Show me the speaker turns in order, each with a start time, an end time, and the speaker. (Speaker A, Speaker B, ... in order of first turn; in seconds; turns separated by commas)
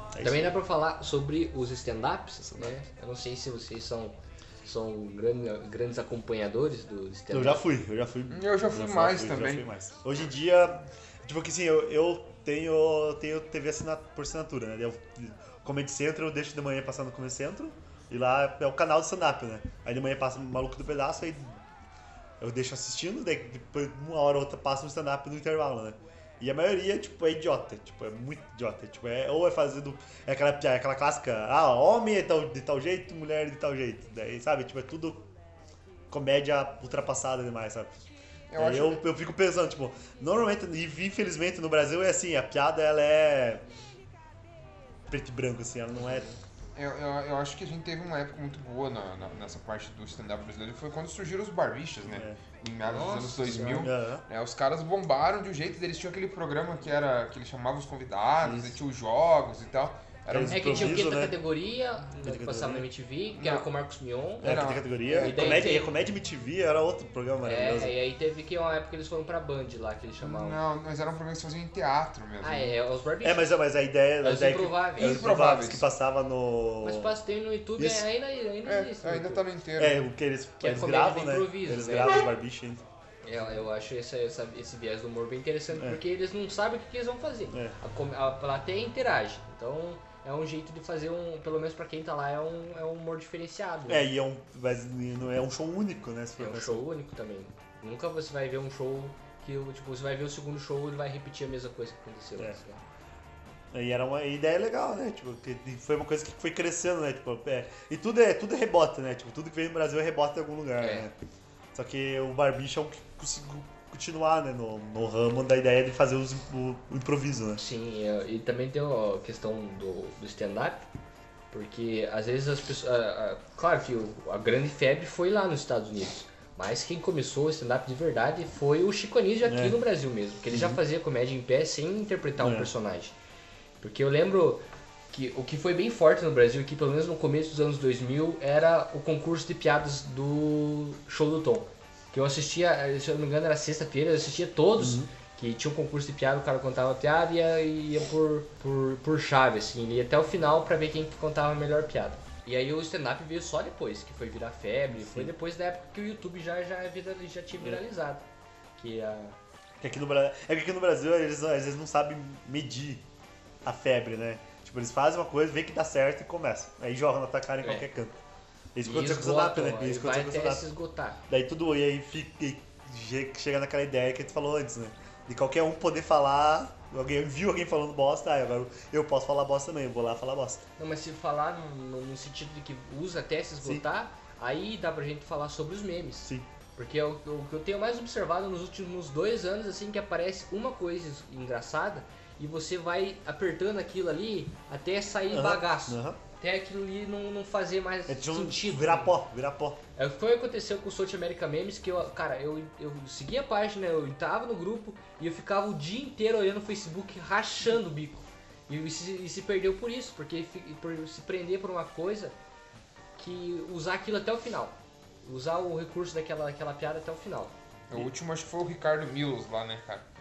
Speaker A: 0.2-0.5, Speaker B: 0.2-7.7, Speaker A: 7.3-21.6, Speaker C: 8.3-9.7, Speaker A: 22.4-35.3, Speaker A: 36.1-38.0, Speaker C: 38.5-39.0, Speaker A: 38.6-43.6, Speaker A: 45.1-46.3, Speaker B: 46.0-46.4, Speaker C: 46.8-61.1, Speaker A: 52.1-52.4, Speaker B: 52.9-53.9, Speaker A: 53.5-54.2, Speaker A: 58.4-58.8, Speaker A: 60.3-61.4, Speaker B: 60.5-64.5, Speaker A: 62.2-62.8, Speaker C: 63.4-63.6, Speaker C: 64.4-65.7, Speaker A: 64.4-67.9, Speaker B: 65.1-65.9, Speaker B: 67.4-70.6, Speaker C: 70.2-72.8, Speaker B: 72.4-73.6, Speaker A: 73.2-77.2, Speaker B: 74.2-75.2, Speaker C: 75.0-75.9, Speaker B: 76.8-79.4, Speaker A: 77.8-78.1, Speaker C: 78.7-80.1, Speaker A: 79.8-82.8, Speaker B: 80.6-82.2, Speaker B: 83.2-94.1, Speaker A: 87.5-87.8, Speaker A: 93.9-96.9, Speaker B: 96.4-102.8, Speaker A: 103.7-111.1, Speaker B: 110.8-111.1, Speaker A: 111.7-117.6, Speaker B: 117.6-120.9, Speaker B: 121.5-133.2, Speaker A: 129.4-129.8, Speaker A: 130.5-130.8, Speaker A: 132.4-132.7, Speaker B: 133.8-158.3, Speaker A: 144.8-145.1, Speaker A: 155.0-155.3, Speaker B: 158.8-159.4, Speaker A: 159.8-163.0, Speaker A: 163.6-168.2, Speaker A: 168.8-170.7, Speaker B: 168.8-171.2, Speaker A: 171.3-180.6, Speaker B: 180.8-199.1, Speaker A: 195.3-196.2, Speaker A: 198.1-199.8, Speaker B: 200.0-212.3, Speaker B: 213.2-217.5, Speaker C: 217.9-220.0